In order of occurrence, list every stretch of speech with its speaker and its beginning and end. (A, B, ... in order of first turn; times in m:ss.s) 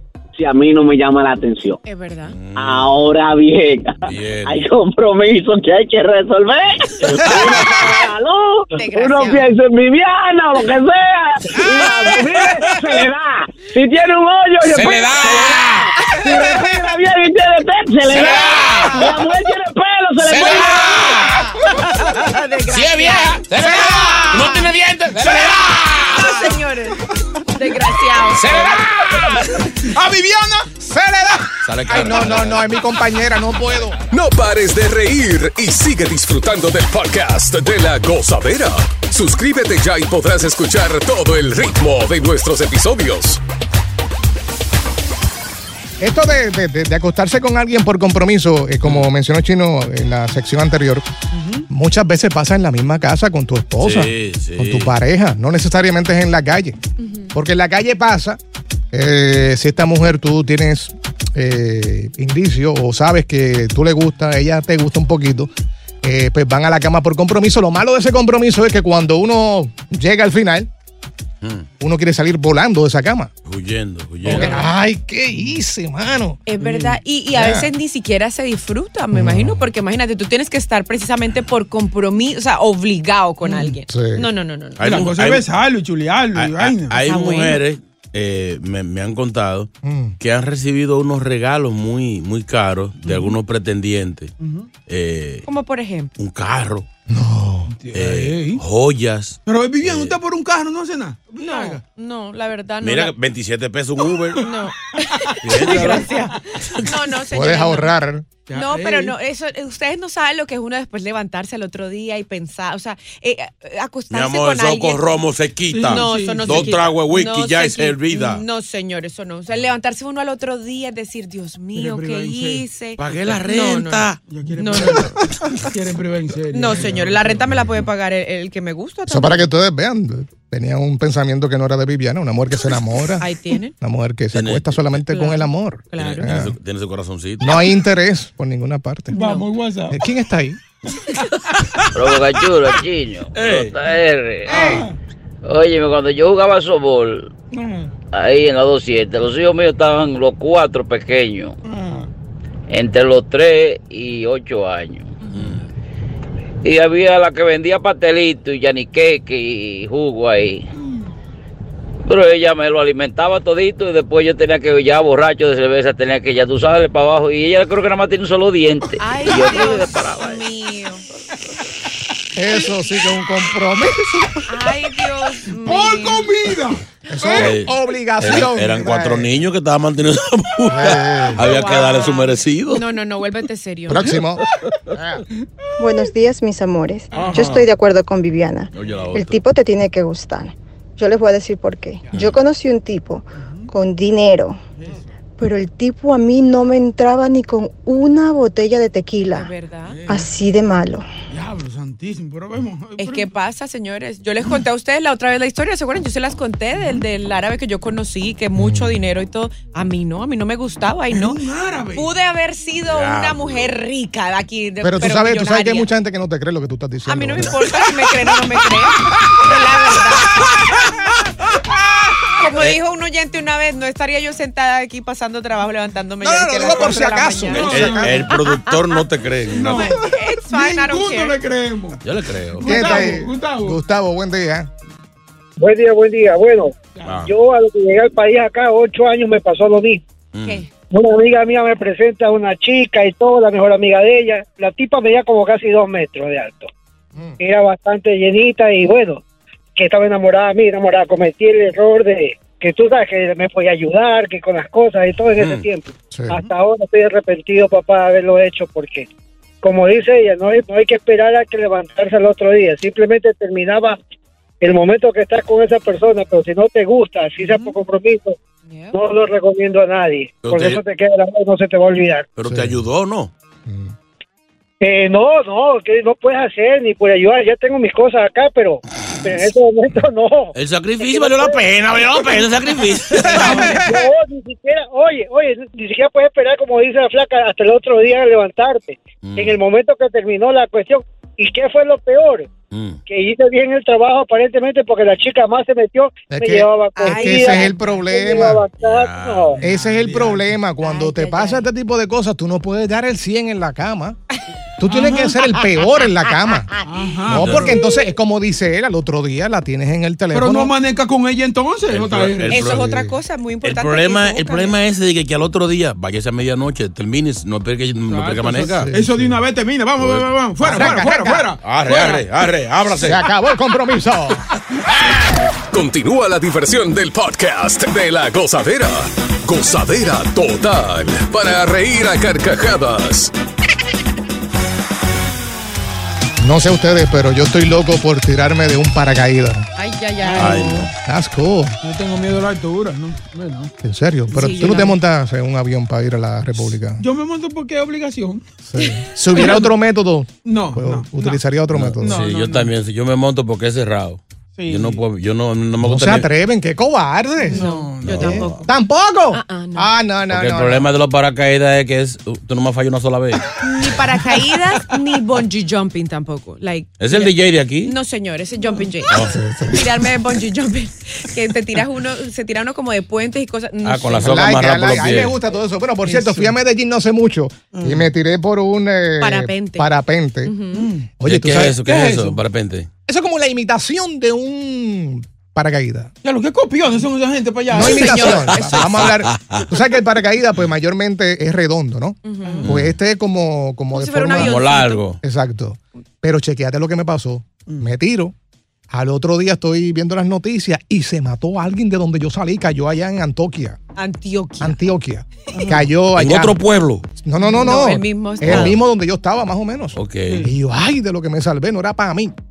0:00.4-0:01.8 A
0:01.8-0:02.4 B
0:02.3-0:03.1 C
0:02.6-0:21.0 A
0:04.0-0:04.7 C
0:07.2-0:07.9 C
0:08.7-0:09.5 B
0:11.5-0:12.8 C
0:14.6-0:15.9 C
0:18.1-0:19.2 C
0:20.2-0:21.5 C
0:21.2-0:23.5 B
0:22.7-0:26.6 C
0:23.6-0:24.5 D
0:24.0-0:24.7 B
0:25.2-0:28.8 B
0:28.3-0:29.6 C
0:29.7-0:30.7 E
0:30.8-0:34.0 D
0:31.6-0:32.8 C
0:34.1-0:43.4 F
0:46.0-0:51.0 D
0:48.8-0:49.1 C
0:51.7-0:56.8 D
0:53.8-0:54.9 C
0:57.0-0:57.3 B
0:57.3-0:58.4 D
0:58.9-1:05.5 D
1:06.0-1:10.7 D
1:11.4-1:11.7 C
1:11.8-1:13.3 D
1:13.5-1:14.7 C
1:14.3-1:14.7 B
1:14.3-1:16.4 D
1:16.5-1:24.8 B
1:16.6-1:17.0 E
1:17.3-1:17.7 D
1:19.1-1:19.6 D
1:23.4-1:23.8 E
1:23.9-1:24.3 D
1:24.8-1:25.4 C
1:24.8-1:27.0 E
1:26.4-1:34.3 C
1:27.0-1:27.6 B
1:29.8-1:30.2 D
1:33.0-1:33.4 E
1:34.4-1:34.7 E
1:34.9-1:35.5 C
1:35.5-1:36.1 B
1:36.2-1:36.9 C
1:37.1-1:37.7 D
1:37.7-1:38.6 E
1:37.9-1:40.2 C
1:39.5-1:41.8 E
1:41.4-1:43.1 B
1:42.8-1:44.5 C
1:44.4-1:48.0 B
1:45.2-1:46.4 E
1:45.4-1:46.9 C
1:47.3-1:48.4 D
1:48.5-1:49.2 E
1:48.5-1:55.1 B
1:54.1-1:58.4 C
1:55.7-1:56.8 E
1:55.8-2:05.2 B
2:01.8-2:02.6 E
2:03.0-2:04.2 C
2:04.3-2:05.1 E
2:05.7-2:07.7 E
2:06.5-2:09.5 B
2:09.1-2:16.6 D
2:13.2-2:13.7 B
2:14.3-2:15.0 C
2:15.1-2:16.3 B
2:16.0-2:17.7 C
2:17.4-2:19.2 D
2:19.1-2:20.0 E
2:19.1-2:19.5 B
2:19.9-2:20.6 D
2:21.9-2:24.7 G
2:23.4-2:23.8 C
2:24.5-2:25.0 E
2:25.4-2:27.3 G
2:27.5-2:27.9 E
2:28.1-2:31.6 G
2:31.6-2:32.1 E
2:32.7-2:35.1 G
2:35.3-2:35.7 C
2:36.6-2:40.7 G
2:42.1-2:50.4 G
2:49.0-2:51.0 B
2:52.4-2:54.5 D
2:54.5-2:56.3 B
2:55.6-2:56.8 E
2:57.1-2:59.3 D
2:57.3-3:02.9 C
3:00.7-3:01.4 D
3:01.4-3:04.2 B
3:01.7-3:02.0 E
3:03.9-3:04.4 D
3:04.9-3:05.2 D
3:05.8-3:14.6 H
3:07.1-3:07.7 E
3:08.7-3:09.4 C
3:12.1-3:12.4 C
3:13.4-3:13.7 E
3:14.8-3:15.2 E
3:15.4-3:19.5 H
3:19.3-3:20.0 B
3:19.9-3:20.3 E
3:20.1-3:21.1 H
3:21.3-3:23.3 E
3:23.0-3:31.4 B
3:28.6-3:29.0 D
3:31.1-3:32.1 E
3:31.9-3:35.9 B
3:32.9-3:33.7 C
3:34.8-3:37.6 D
3:37.1-3:40.5 B
3:42.4-3:49.0 B
3:46.2-3:48.3 D
3:47.5-3:48.2 E
3:47.5-3:49.9 C
3:49.5-3:51.4 B
3:49.5-3:52.0 E
3:52.0-3:52.8 C
3:52.6-3:53.8 E
3:52.6-3:54.7 D
3:52.7-3:53.2 B
3:55.6-4:00.0 I
3:57.0-3:57.3 E
3:57.0-3:57.3 C
4:00.3-4:00.7 C
4:00.9-4:06.7 I
4:07.4-4:09.2 I
4:09.8-4:19.1 I
4:15.4-4:15.6 C
4:16.1-4:16.5 D
4:19.6-4:24.0 I
4:24.6-4:28.4 I
4:27.4-4:27.7 B
4:28.7-4:29.0 B
4:28.9-4:32.3 I
4:30.4-4:30.8 C
4:32.4-4:33.3 C
4:32.5-4:32.8 D
4:33.7-4:33.9 D
4:34.8-4:41.6 I
4:40.5-4:43.8 C
4:43.2-4:44.1 D
4:43.3-4:43.8 E
4:43.8-4:52.5 I
4:49.2-4:49.6 C
4:52.7-4:53.0 C
4:53.1-4:59.6 I
4:56.3-4:58.6 D
4:57.0-4:57.8 B
4:58.8-4:59.6 C
4:59.5-5:00.6 E
4:59.6-5:04.2 D
5:00.8-5:01.7 B
5:04.8-5:06.7 D
5:04.9-5:05.4 E
5:06.8-5:07.9 E
5:07.3-5:10.7 D
5:07.3-5:07.8 C
5:10.3-5:12.7 E
5:11.9-5:12.9 C
5:12.5-5:14.8 B
5:12.7-5:13.2 D
5:13.6-5:18.9 C
5:18.1-5:22.3 E
5:18.6-5:19.4 D
5:20.0-5:21.0 C
5:20.6-5:21.5 D
5:21.6-5:23.3 C
5:23.0-5:24.4 D
5:25.7-5:33.3 F
5:36.4-5:39.7 D
5:39.8-5:40.9 B
5:40.2-5:40.6 E
5:40.3-5:40.9 C
5:41.0-5:41.8 D
5:41.8-5:43.7 E
5:43.8-5:47.0 D
5:44.3-5:45.0 B
5:44.4-5:44.9 E
5:46.6-5:48.4 E
5:48.7-5:52.2 D
5:49.3-5:49.7 E
5:50.4-5:51.4 E
5:51.7-5:56.3 C
5:52.0-5:52.7 E
5:54.6-5:55.0 E
5:55.8-6:00.9 D
5:57.4-5:58.7 B
5:57.5-5:58.5 E
5:58.0-5:58.6 C
5:59.3-6:00.0 B
6:00.3-6:03.5 C
6:03.6-6:14.6 B
6:07.0-6:08.0 C
6:09.2-6:09.9 D
6:13.8-6:15.4 C
6:14.2-6:20.5 D
6:16.0-6:16.6 E
6:17.7-6:18.1 E
6:19.2-6:19.9 B
6:20.4-6:20.9 B
6:20.7-6:21.1 E
6:21.2-6:21.8 D
6:21.2-6:22.9 C
6:21.8-6:22.4 E
6:23.1-6:26.1 D
6:26.2-6:28.3 E
6:27.7-6:34.5 D
6:27.7-6:29.2 B
6:28.5-6:29.7 C
6:32.2-6:32.6 B
6:32.4-6:32.8 E
6:32.6-6:33.0 C
6:33.9-6:35.1 B
6:34.4-6:35.2 C
6:35.2-6:38.3 D
6:37.7-6:37.9 E
6:38.9-6:43.8 D
6:44.0-6:44.8 B
6:44.6-6:46.6 D
6:45.6-6:45.9 E
6:46.2-6:47.0 C
6:47.2-6:52.3 D
6:47.4-6:48.8 B
6:48.4-6:48.8 C
6:50.0-6:50.5 C
6:50.2-6:50.6 E